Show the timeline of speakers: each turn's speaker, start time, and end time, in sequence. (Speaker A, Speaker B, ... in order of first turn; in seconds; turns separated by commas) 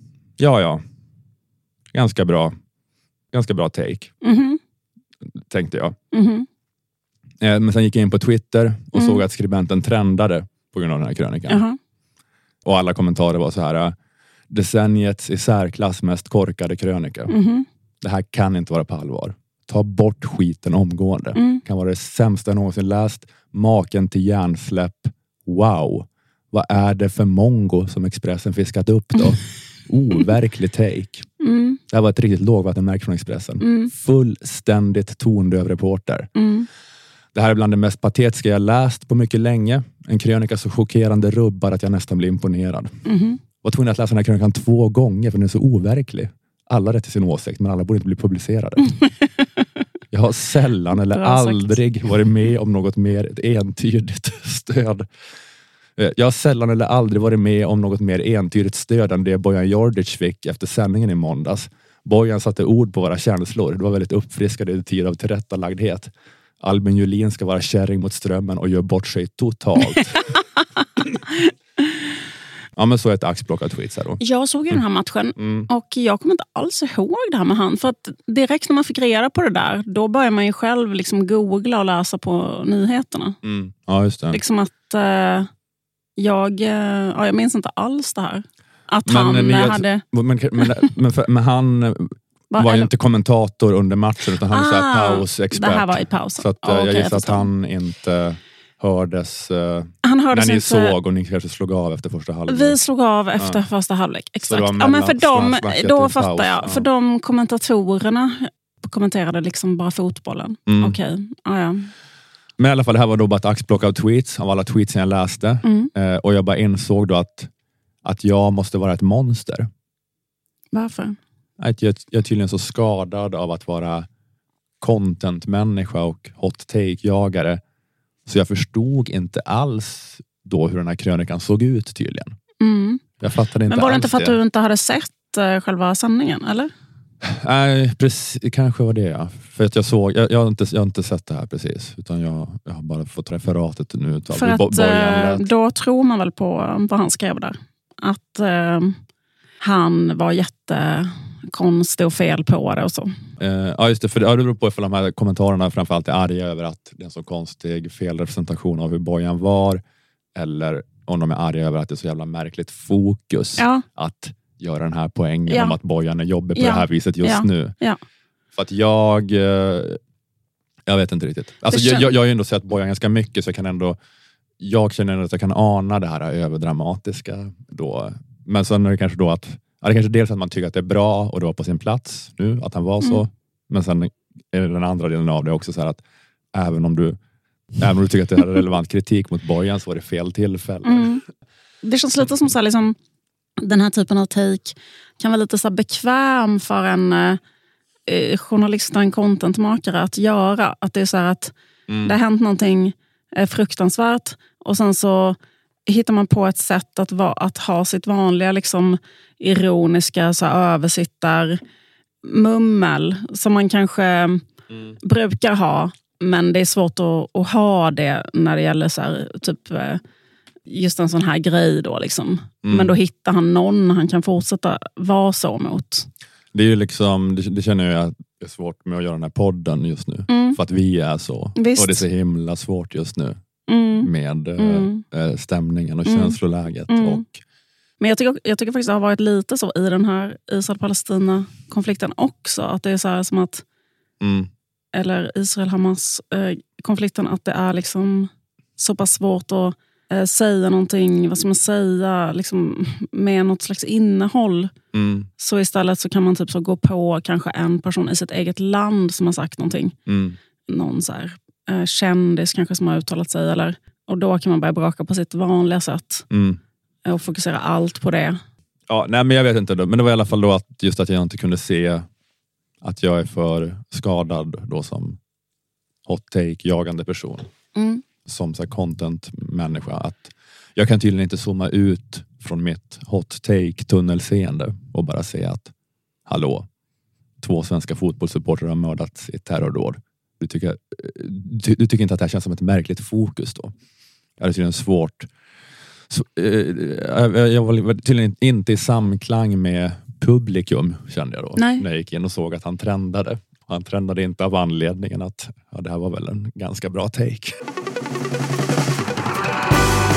Speaker A: 0.4-0.8, Speaker A: 1.9-2.5, Speaker A: 3.3-4.1, Speaker B: 4.2-4.6, Speaker A: 5.5-6.0, Speaker B: 6.1-6.5, Speaker A: 7.4-11.6, Speaker B: 8.9-9.2, Speaker B: 11.5-11.8, Speaker A: 12.7-13.9, Speaker A: 14.5-17.3, Speaker B: 17.3-17.7, Speaker A: 18.0-31.3, Speaker B: 21.4-21.6, Speaker B: 31.4-31.8, Speaker A: 31.9-36.3, Speaker B: 33.6-33.9, Speaker B: 36.4-36.7, Speaker A: 37.3-42.9, Speaker B: 43.0-43.4, Speaker A: 43.6-48.9, Speaker A: 50.1-55.1, Speaker B: 51.1-51.8, Speaker A: 56.0-70.2, Speaker A: 72.8-74.2, Speaker B: 74.2-83.4, Speaker A: 75.4-75.7, Speaker A: 83.4-84.4, Speaker B: 84.3-85.5, Speaker B: 86.2-90.0, Speaker A: 89.1-102.8, Speaker B: 92.5-92.9, Speaker B: 94.5-97.5, Speaker B: 100.0-101.0, Speaker B: 102.5-111.9, Speaker A: 104.4-106.9, Speaker A: 110.7-111.0, Speaker A: 112.6-117.5, Speaker B: 115.6-115.9, Speaker A: 118.0-119.7, Speaker B: 120.7-121.2, Speaker A: 121.6-124.1, Speaker A: 124.8-127.6, Speaker A: 128.3-132.4, Speaker B: 132.6-133.0, Speaker A: 133.2-134.4, Speaker B: 133.7-136.7, Speaker A: 137.2-145.5, Speaker B: 144.3-149.0, Speaker B: 149.6-153.1, Speaker A: 153.4-159.8, Speaker A: 160.3-167.7, Speaker B: 163.6-163.8, Speaker B: 165.5-165.8, Speaker B: 166.6-168.0, Speaker A: 168.6-170.0, Speaker A: 170.9-174.0, Speaker B: 171.7-172.1, Speaker A: 174.6-186.0, Speaker A: 186.6-187.2, Speaker A: 187.8-191.2, Speaker B: 190.8-191.2, Speaker B: 191.8-193.0, Speaker B: 193.6-197.4, Speaker B: 198.1-211.6, Speaker A: 201.9-202.2, Speaker B: 212.2-214.4, Speaker B: 215.0-220.0, Speaker B: 220.7-226.1, Speaker A: 222.6-222.9, Speaker A: 226.5-233.4, Speaker B: 230.3-230.6, Speaker B: 231.6-232.0, Speaker B: 233.7-235.0, Speaker A: 234.0-237.4, Speaker B: 236.1-236.4, Speaker B: 236.9-237.2, Speaker B: 238.0-243.6, Speaker A: 244.2-244.5, Speaker B: 244.9-254.7, Speaker A: 254.9-255.3, Speaker B: 255.4-259.9, Speaker A: 260.1-260.4, Speaker B: 260.7-266.2, Speaker A: 266.3-266.6, Speaker B: 267.1-268.4, Speaker A: 268.9-272.1, Speaker A: 272.8-275.2, Speaker A: 276.1-277.5, Speaker B: 277.8-278.0, Speaker A: 278.2-285.7, Speaker A: 286.3-286.7, Speaker A: 287.4-293.7, Speaker A: 294.4-295.3, Speaker A: 296.1-307.6, Speaker B: 301.6-301.8